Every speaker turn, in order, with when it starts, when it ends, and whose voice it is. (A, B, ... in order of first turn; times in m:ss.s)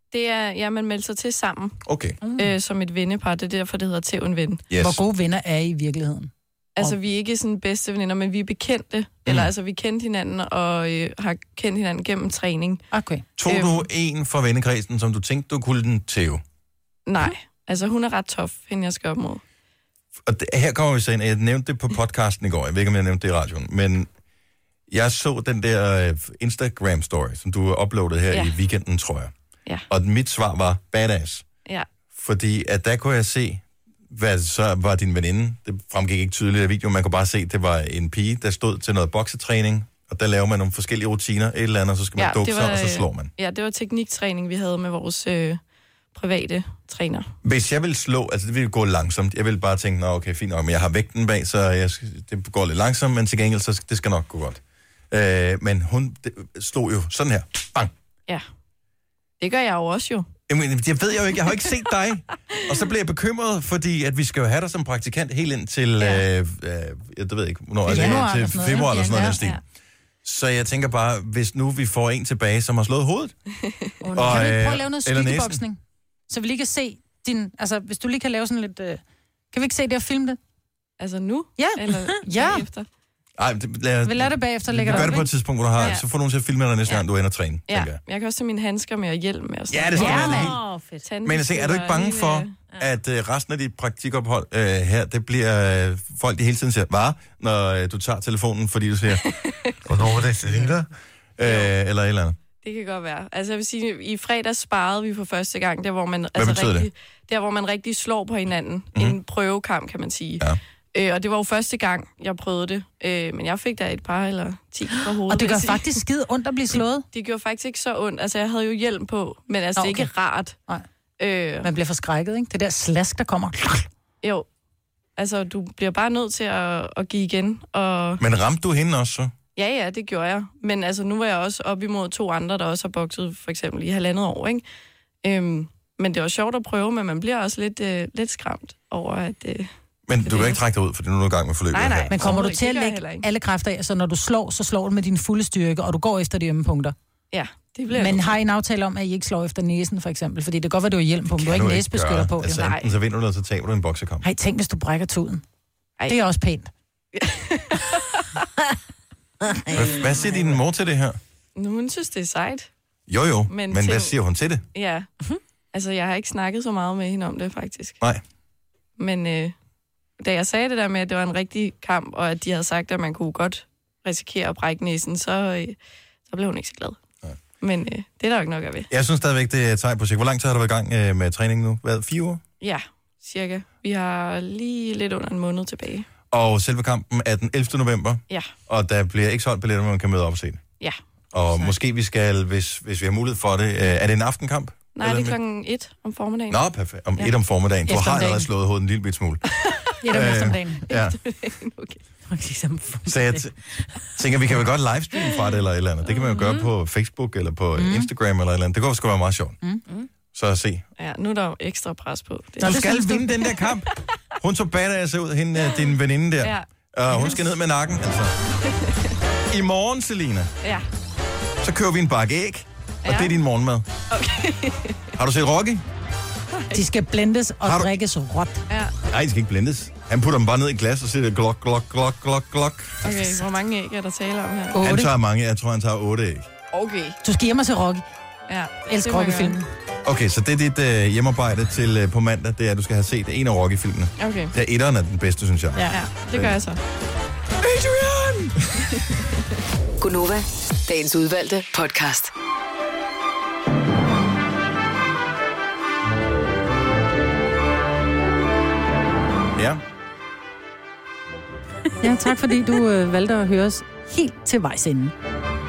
0:00.1-0:01.8 A
0:01.8-0:02.2 B
0:02.4-0:04.6 A
0:04.7-0:05.0 B
0:04.8-0:07.0 C
0:06.8-0:12.9 A
0:09.3-0:09.5 B
0:12.9-0:13.2 C
0:13.4-0:16.4 B
0:13.5-0:13.9 A
0:17.1-0:19.4 A
0:20.3-0:24.1 B
0:24.9-0:29.3 B
0:28.3-0:28.6 A
0:29.9-0:31.5 B
0:32.1-0:43.3 B
0:42.2-0:45.6 A
0:46.1-0:47.3 A
0:47.4-0:57.9 B
0:59.4-1:00.3 A
1:00.5-1:09.6 B
1:06.0-1:06.3 A
1:07.9-1:09.4 C
1:08.0-1:09.6 A
1:10.2-1:13.4 B
1:14.1-1:20.4 C
1:14.1-1:14.5 D
1:14.2-1:15.6 B
1:21.0-1:22.9 A
1:21.6-1:22.7 C
1:23.4-1:28.0 B
1:24.0-1:25.3 C
1:25.8-1:26.1 A
1:27.7-1:32.6 A
1:29.7-1:30.6 B
1:30.0-1:30.5 C
1:30.0-1:31.1 D
1:31.2-1:39.3 B
1:39.2-1:39.8 A
1:39.8-1:42.4 B
1:41.4-1:41.7 A
1:42.6-1:55.9 A
1:46.4-1:46.9 B
1:55.3-1:57.1 C
1:57.1-2:00.5 A
1:59.8-2:00.1 C
2:01.2-2:01.7 A
2:01.6-2:03.9 C
2:04.2-2:04.5 A
2:05.2-2:08.2 A
2:08.2-2:09.3 B
2:09.6-2:14.6 A
2:15.2-2:20.6 A
2:20.1-2:22.4 B
2:21.7-2:23.3 A
2:22.1-2:27.0 C
2:27.3-2:28.4 A
2:27.9-2:32.7 C
2:31.4-2:34.3 B
2:32.6-2:32.9 A
2:34.2-2:35.4 C
2:36.1-2:36.7 C
2:37.2-2:38.4 A
2:39.6-2:40.0 D
2:39.7-2:41.2 B
2:41.6-2:42.7 A
2:43.1-2:44.6 B
2:43.5-2:44.2 A
2:44.7-2:45.1 A
2:45.7-2:48.0 A
2:49.0-2:49.6 A
2:50.2-2:57.0 A
2:57.6-2:58.9 A
2:58.9-3:02.4 B
3:02.6-3:06.1 A
3:06.3-3:10.6 B
3:11.3-3:15.4 B
3:15.0-3:17.3 A
3:16.5-3:19.4 B
3:17.9-3:18.5 C
3:20.0-3:20.9 C
3:20.0-3:21.2 B
3:20.9-3:22.0 A
3:22.3-3:23.5 D
3:23.1-3:23.6 B
3:24.1-3:29.6 B
3:26.4-3:26.7 D
3:27.8-3:28.1 C
3:30.3-3:30.9 B
3:31.0-3:32.8 A
3:32.6-3:38.4 B
3:32.6-3:33.6 C
3:33.6-3:33.9 A
3:35.7-3:36.7 A
3:38.6-3:39.2 A
3:39.5-3:40.5 B
3:41.6-3:43.9 B
3:43.0-3:43.4 A
3:44.1-3:45.2 A
3:45.2-3:45.8 B
3:46.5-3:46.9 A
3:46.7-3:48.6 C
3:47.6-3:48.0 B
3:48.7-3:49.0 A
3:49.1-3:53.2 B
3:53.0-3:54.8 A
3:54.7-3:55.1 C
3:54.8-3:56.5 B
3:56.7-3:57.2 A
3:57.2-3:58.0 C
3:58.5-3:59.6 A
3:58.9-3:59.7 C
4:00.0-4:06.6 B
4:04.2-4:04.5 A
4:05.8-4:06.0 C
4:05.9-4:06.8 A
4:07.6-4:09.0 B
4:08.9-4:09.2 A
4:10.0-4:12.3 E
4:19.6-4:19.8 B
4:22.0-4:25.1 C